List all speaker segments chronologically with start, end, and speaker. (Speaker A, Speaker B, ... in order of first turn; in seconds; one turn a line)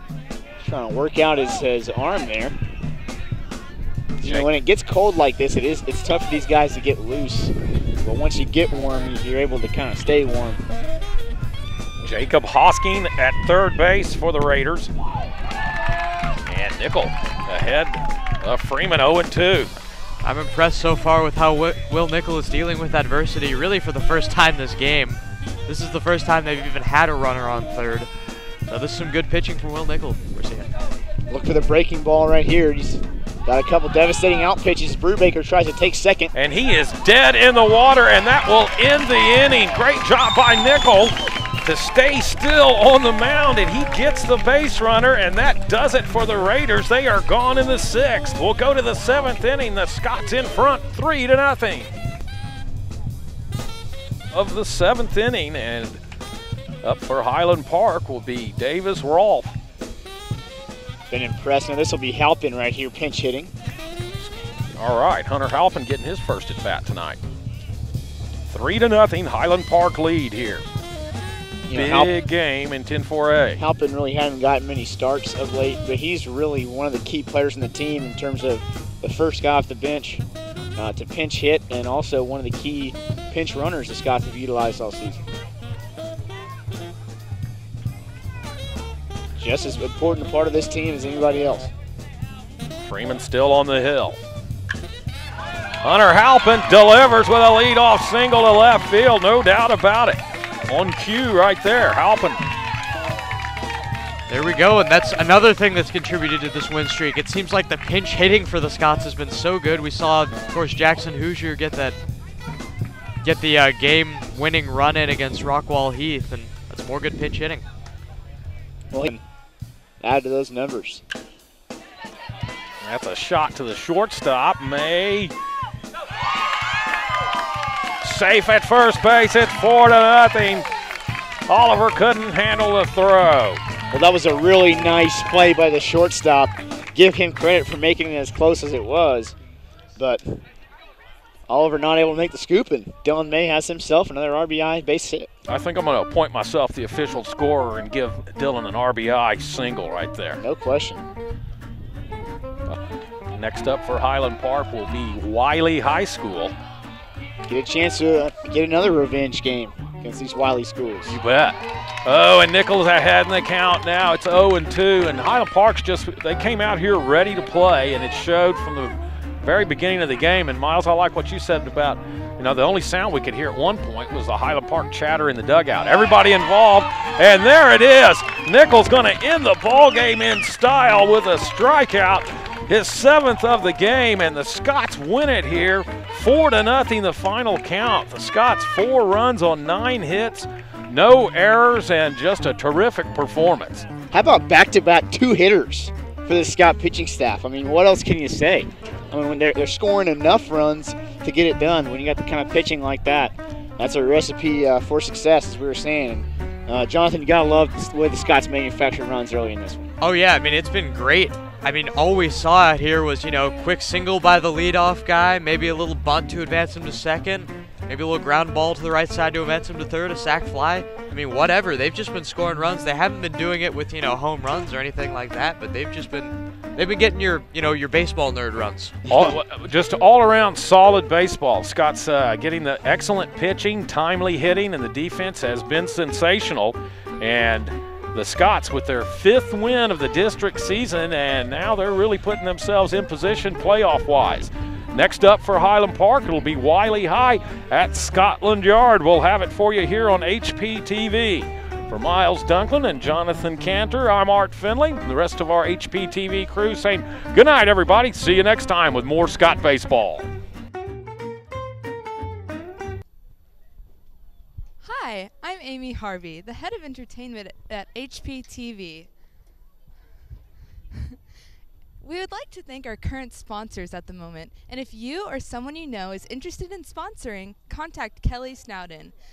Speaker A: 0.6-2.5
Speaker A: 4.2-10.6
Speaker B: 4.2-4.5
Speaker B: 12.0-14.9
Speaker B: 16.4-19.7
Speaker C: 20.2-28.1
Speaker C: 28.7-30.7
Speaker A: 31.3-36.3
Speaker B: 36.3-51.9
Speaker B: 54.3-56.0
Speaker B: 56.8-59.5
Speaker A: 61.1-63.5
Speaker B: 64.7-67.2
Speaker B: 68.5-70.6
Speaker A: 71.7-72.1
Speaker B: 71.7-73.6
Speaker A: 73.6-80.2
Speaker A: 80.7-85.2
Speaker A: 89.4-91.7
Speaker B: 92.8-94.2
Speaker B: 95.8-102.5
Speaker C: 104.3-112.0
Speaker C: 113.2-117.7
Speaker A: 118.9-119.2
Speaker A: 120.0-121.0
Speaker B: 122.8-125.3
Speaker B: 128.0-130.7
Speaker B: 131.5-133.6
Speaker A: 133.9-139.3
Speaker A: 140.0-140.4
Speaker A: 141.5-145.3
Speaker B: 145.5-150.4
Speaker A: 150.4-151.0
Speaker B: 153.3-156.5
Speaker A: 157.5-161.2
Speaker B: 161.0-193.9
Speaker A: 194.1-209.9
Speaker C: 210.0-229.0
Speaker A: 229.1-229.3
Speaker B: 229.1-260.3
Speaker D: 264.8-269.1
Speaker D: 270.9-271.2
Speaker D: 272.0-279.1